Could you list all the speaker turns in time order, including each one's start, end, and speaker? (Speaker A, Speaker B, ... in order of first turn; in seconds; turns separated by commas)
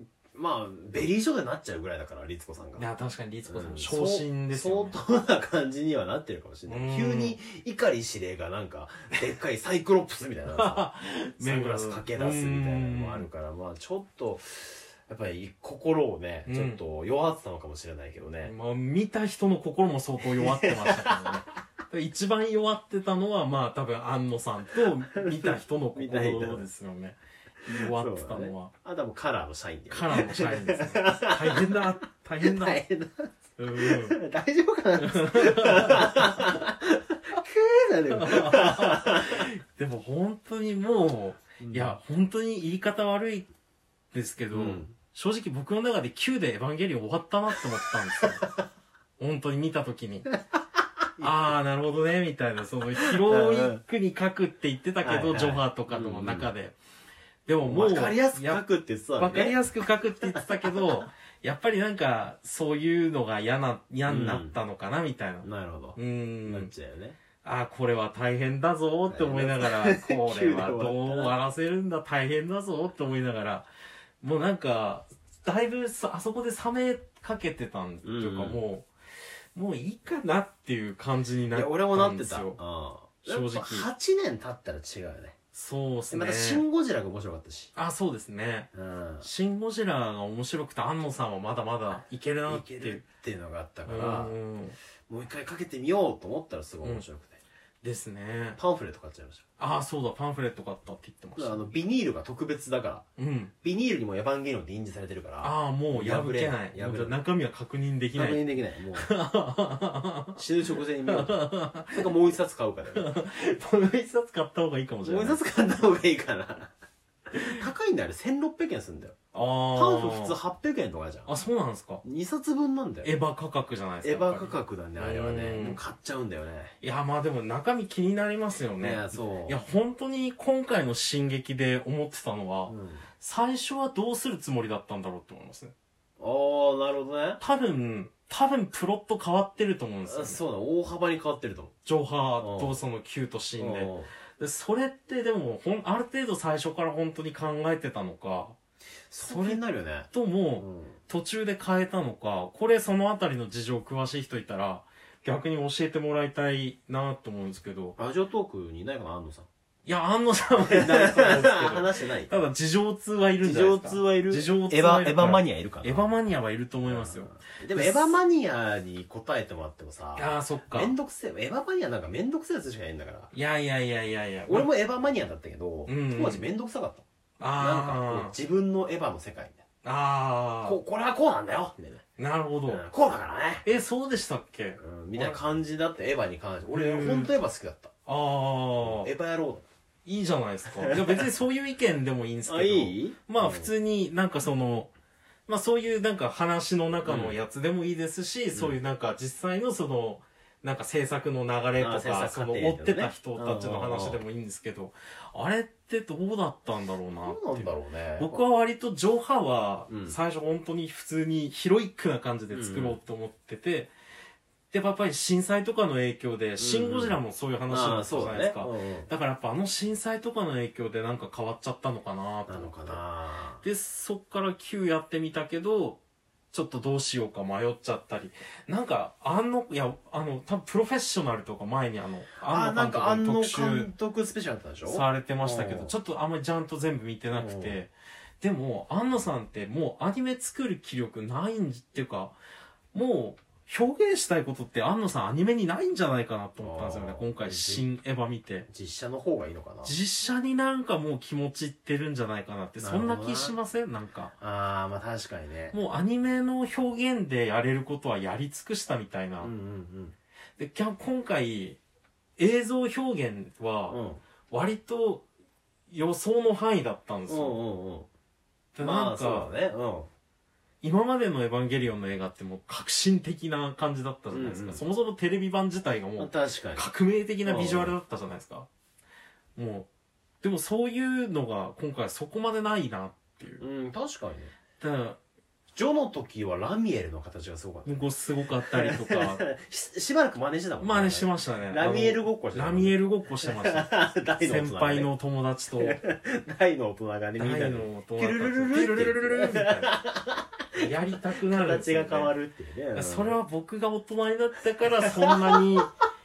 Speaker A: 0.3-2.9, Speaker B: 2.8-5.0, Speaker A: 3.5-10.9, Speaker B: 6.7-7.4, Speaker B: 10.5-13.3, Speaker A: 11.4-18.5, Speaker B: 16.5-16.8, Speaker B: 18.4-28.7, Speaker A: 20.4-21.3, Speaker A: 25.4-26.7, Speaker A: 27.9-31.8, Speaker B: 29.9-32.8, Speaker A: 32.4-39.5, Speaker B: 33.6-34.2, Speaker B: 35.0-36.5, Speaker B: 38.1-43.5, Speaker A: 41.6-42.0, Speaker B: 44.1-48.4, Speaker A: 44.5-44.9, Speaker A: 48.2-48.5, Speaker B: 49.2-50.3, Speaker A: 51.2-51.5, Speaker B: 51.2-56.8, Speaker A: 53.0-53.8, Speaker A: 55.0-56.5, Speaker B: 57.5-58.6, Speaker A: 57.6-59.6, Speaker B: 59.2-66.7, Speaker A: 64.0-64.6, Speaker A: 65.4-67.2, Speaker B: 67.4-73.7, Speaker A: 69.1-71.4, Speaker B: 74.2-78.9, Speaker A: 78.0-78.6, Speaker B: 79.5-82.6, Speaker A: 81.5-85.4, Speaker B: 83.2-83.9, Speaker B: 85.5-86.6, Speaker A: 86.1-87.7, Speaker B: 87.8-88.7, Speaker A: 88.7-89.3, Speaker B: 89.2-93.0, Speaker A: 92.5-94.3, Speaker B: 93.9-94.8, Speaker A: 95.1-97.4, Speaker B: 97.8-98.6, Speaker A: 98.6-99.4, Speaker B: 99.6-101.6, Speaker A: 101.4-103.0, Speaker B: 103.2-103.5, Speaker A: 103.6-107.2, Speaker B: 105.4-108.4, Speaker A: 108.2-109.1, Speaker B: 109.0-110.4, Speaker A: 110.4-111.4, Speaker B: 111.1-112.1, Speaker A: 111.9-113.1, Speaker B: 112.9-115.4, Speaker A: 115.0-116.7, Speaker A: 117.3-119.2, Speaker B: 119.3-120.4, Speaker A: 119.7-121.3, Speaker B: 121.3-122.0, Speaker A: 122.0-123.1, Speaker B: 123.0-125.8, Speaker A: 124.0-126.8, Speaker B: 126.8-135.7, Speaker A: 128.8-129.6, Speaker A: 132.7-133.1, Speaker A: 136.2-137.4, Speaker B: 137.4-140.4, Speaker A: 140.1-141.7, Speaker B: 141.9-148.6, Speaker A: 142.4-142.8, Speaker A: 143.6-144.1, Speaker A: 149.1-151.0, Speaker B: 149.2-158.0, Speaker A: 158.0-159.5, Speaker B: 159.9-168.2, Speaker A: 160.7-162.4, Speaker A: 163.4-166.1, Speaker A: 166.9-173.3, Speaker B: 170.2-170.9, Speaker B: 173.3-174.7, Speaker A: 174.5-179.6, Speaker B: 175.9-176.5, Speaker B: 177.4-178.3, Speaker B: 179.8-180.8, Speaker A: 180.6-182.0, Speaker B: 182.2-182.8, Speaker A: 182.7-183.7, Speaker B: 183.7-185.5, Speaker A: 184.8-187.9, Speaker B: 186.7-187.3, Speaker B: 188.1-189.1, Speaker A: 188.8-189.7, Speaker B: 190.1-194.9, Speaker A: 190.8-191.2, Speaker A: 192.5-193.7, Speaker B: 195.5-213.9, Speaker A: 197.1-197.4, Speaker A: 201.8-204.2, Speaker A: 207.2-208.4, Speaker A: 209.9-210.2, Speaker A: 212.5-213.0, Speaker B: 214.7-223.0, Speaker A: 216.6-219.1, Speaker A: 222.5-223.6, Speaker B: 223.6-226.0, Speaker B: 226.5-233.9, Speaker A: 232.5-235.9, Speaker B: 234.9-242.4, Speaker A: 237.3-237.8, Speaker B: 242.9-248.7, Speaker A: 246.6-247.9, Speaker A: 248.7-250.0, Speaker B: 249.8-254.3, Speaker A: 252.8-253.6, Speaker A: 254.4-255.8, Speaker B: 255.7-259.5, Speaker A: 259.4-260.1, Speaker B: 260.6-261.8, Speaker B: 262.4-264.0, Speaker A: 263.9-264.2, Speaker B: 264.5-265.2, Speaker B: 265.9-267.6, Speaker A: 267.3-268.1, Speaker B: 268.7-269.5, Speaker A: 268.8-270.1, Speaker B: 270.8-278.7, Speaker A: 274.3-274.8, Speaker A: 276.2-276.9, Speaker A: 277.4-277.9, Speaker B: 279.6-279.9, Speaker B: 280.4-283.6, Speaker A: 283.6-284.5, Speaker B: 284.8-285.2, Speaker A: 285.8-295.1, Speaker B: 287.9-289.4, Speaker B: 290.8-296.0, Speaker A: 295.8-300.8, Speaker B: 297.4-299.9, Speaker B: 300.8-302.3, Speaker A: 301.4-303.4, Speaker B: 302.9-305.9, Speaker A: 305.1-305.6